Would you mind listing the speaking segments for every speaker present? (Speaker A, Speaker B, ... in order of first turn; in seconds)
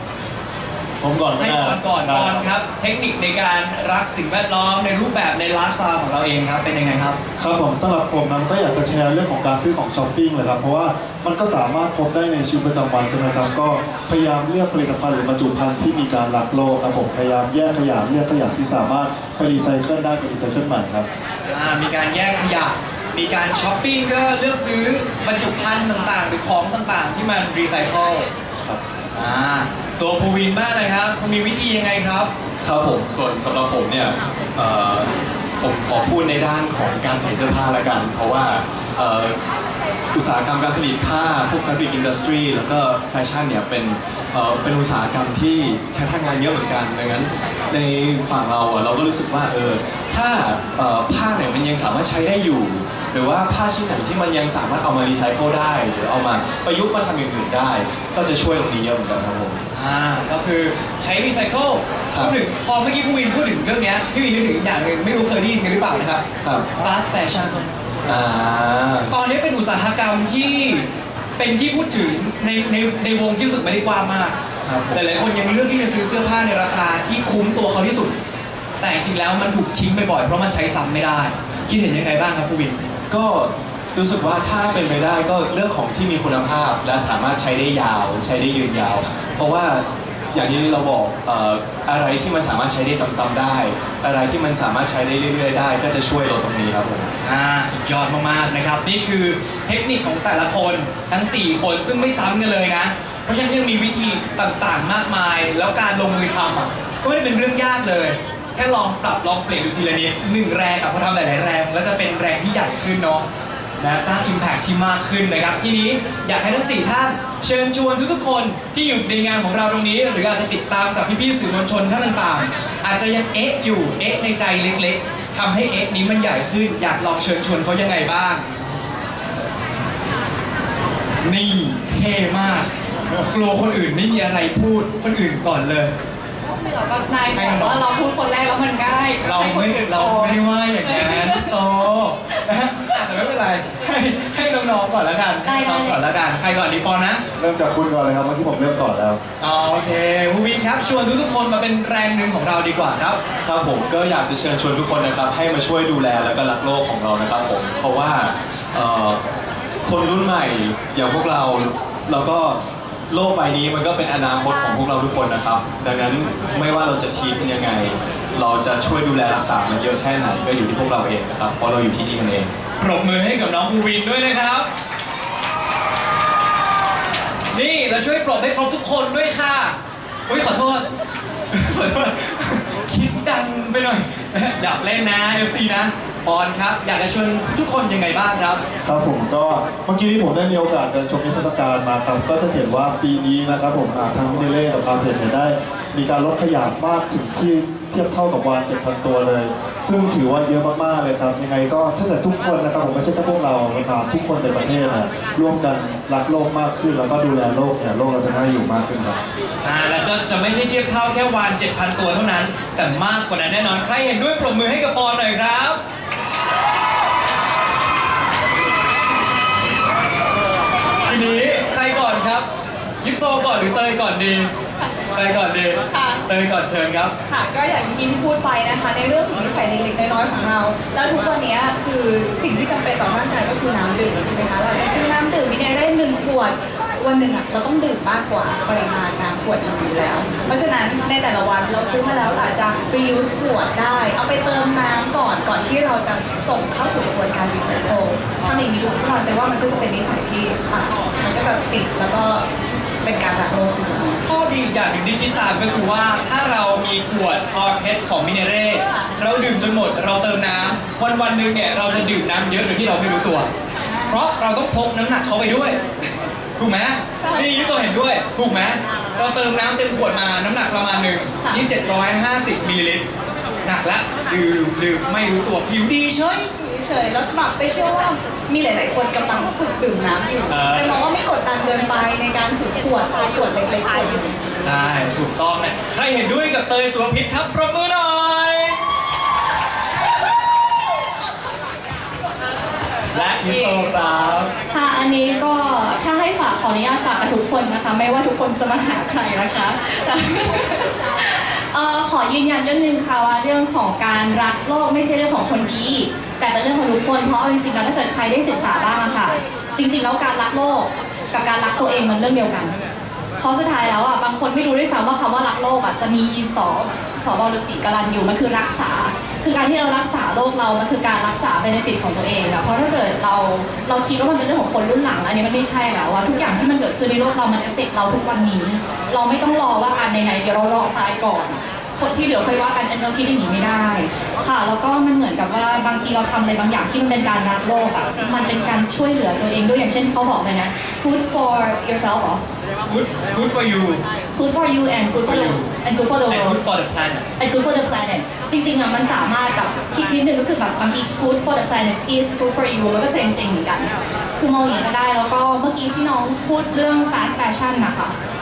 Speaker A: 1.0-2.5, 7.4-21.1, 147.4-149.2, 188.8-209.2
Speaker B: 1.4-7.2, 21.5-28.3, 29.1-32.3, 59.7-66.2, 66.8-67.6, 69.1-74.4, 74.9-78.2, 78.8-82.8, 97.2-113.2, 113.8-128.5, 131.2-135.9, 137.3-137.8, 139.2-147.2, 149.4-153.2, 172.8-174.7, 177.5-179.8, 180.3-180.8, 181.5-188.6, 209.6-215.8, 221.1-222.4, 223.0-224.5, 225.1-227.1, 254.2-263.5, 264.1-265.8, 266.6-273.1, 273.6-276.5, 280.5-281.0, 284.6-288.8, 293.1-294.5, 342.9-344.0, 345.2-345.7, 346.3-347.3
Speaker C: 32.6-39.4, 40.1-59.6, 62.1-62.4, 66.4-66.7, 68.0-69.1, 74.6-75.0, 83.1-97.1, 153.4-159.2, 159.8-162.6, 163.1-172.5
Speaker D: 136.7-141.5, 145.4-146.0, 294.7-312.8, 313.4-342.4, 344.3-346.6, 347.4-358.1
Speaker E: 225.9-226.2, 227.2-252.4, 253.0-254.2, 263.8-264.2, 267.2-267.5, 276.5-284.4